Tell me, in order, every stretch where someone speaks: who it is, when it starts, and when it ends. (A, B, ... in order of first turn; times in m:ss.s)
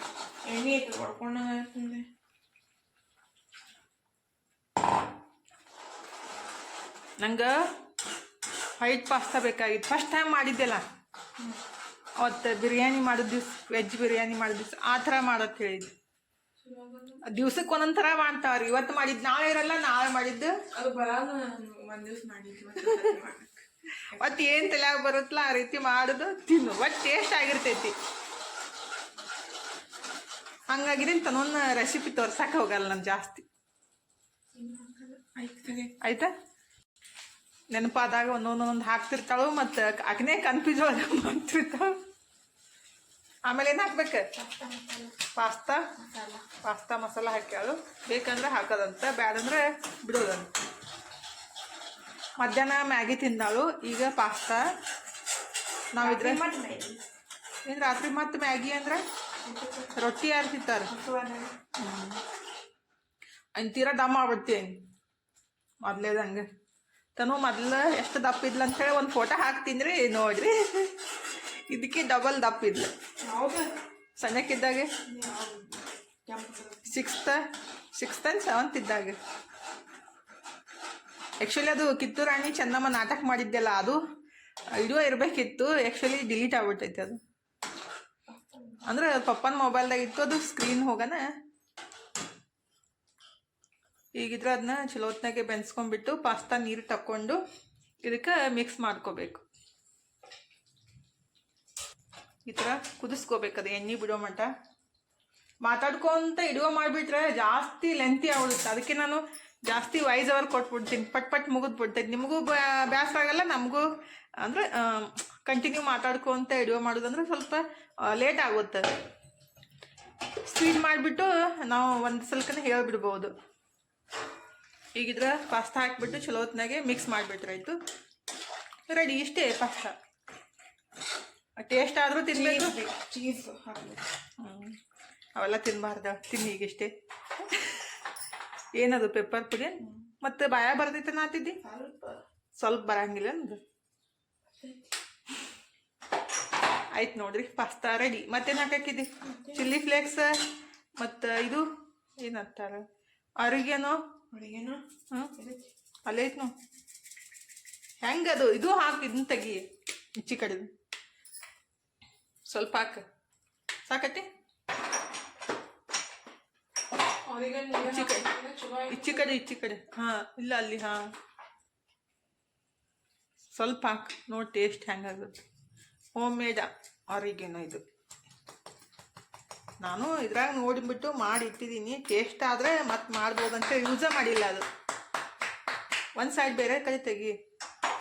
0:00.4-0:02.1 A
0:07.2-0:07.6 B
0:08.8-0:10.8 B
0:12.2-0:15.9 B
0:16.6-0:17.2 A
0:17.2-0:20.6 B
0:20.7-0:24.5 A
0:24.1-0:28.0 B
0:30.7-0:33.4 B
0:34.5-0:35.9 A
0:36.0-0:36.3 B
0:37.7-0:42.0 B
0:43.5-0:44.3 B
0:44.4-0:45.2 A
0:45.4-0:45.9 B
0:46.0-0:46.5 A
0:46.6-0:50.5 B
0:52.4-0:54.7 B
0:55.9-0:56.4 B
0:56.0-0:57.0 A
0:57.6-0:59.0 B
0:59.4-1:00.0 A
1:00.0-1:00.9 B
1:00.9-1:01.6 A
1:01.8-1:02.2 B
1:03.6-1:04.8 B
1:05.8-1:06.5 B
1:07.2-1:12.9 B
1:13.2-1:13.7 A
1:14.2-1:14.9 B
1:15.0-1:16.9 A
1:16.9-1:19.2 B
1:21.4-1:24.0 B
1:24.7-1:27.2 B
1:28.3-1:28.8 A
1:28.8-1:31.3 B
1:34.2-1:37.4 B
1:38.0-1:39.4 B
1:42.5-1:44.5 B
1:45.6-1:58.9 B
2:00.4-2:03.3 B
2:05.0-2:07.8 B
2:08.9-2:10.0 B
2:11.6-2:12.8 B
2:12.3-2:14.0 A
2:14.4-2:14.8 B
2:15.4-2:17.9 B
2:18.7-2:21.6 B
2:21.6-2:22.2 A
2:22.6-2:23.6 B
2:26.9-2:30.5 B
2:29.2-2:29.7 A
2:31.0-2:31.7 B
2:32.2-2:32.8 B
2:33.4-2:34.0 B
2:34.3-2:34.8 A
2:35.3-2:35.7 A
2:36.1-2:36.5 B
2:38.0-2:40.7 B
2:42.5-2:43.0 B
2:43.9-2:44.3 B
2:47.2-2:49.4 A
2:47.8-2:48.3 B
2:48.9-2:51.1 B
2:53.6-2:55.4 B
2:56.2-2:57.8 B
2:59.8-3:04.7 B
3:06.2-3:07.4 B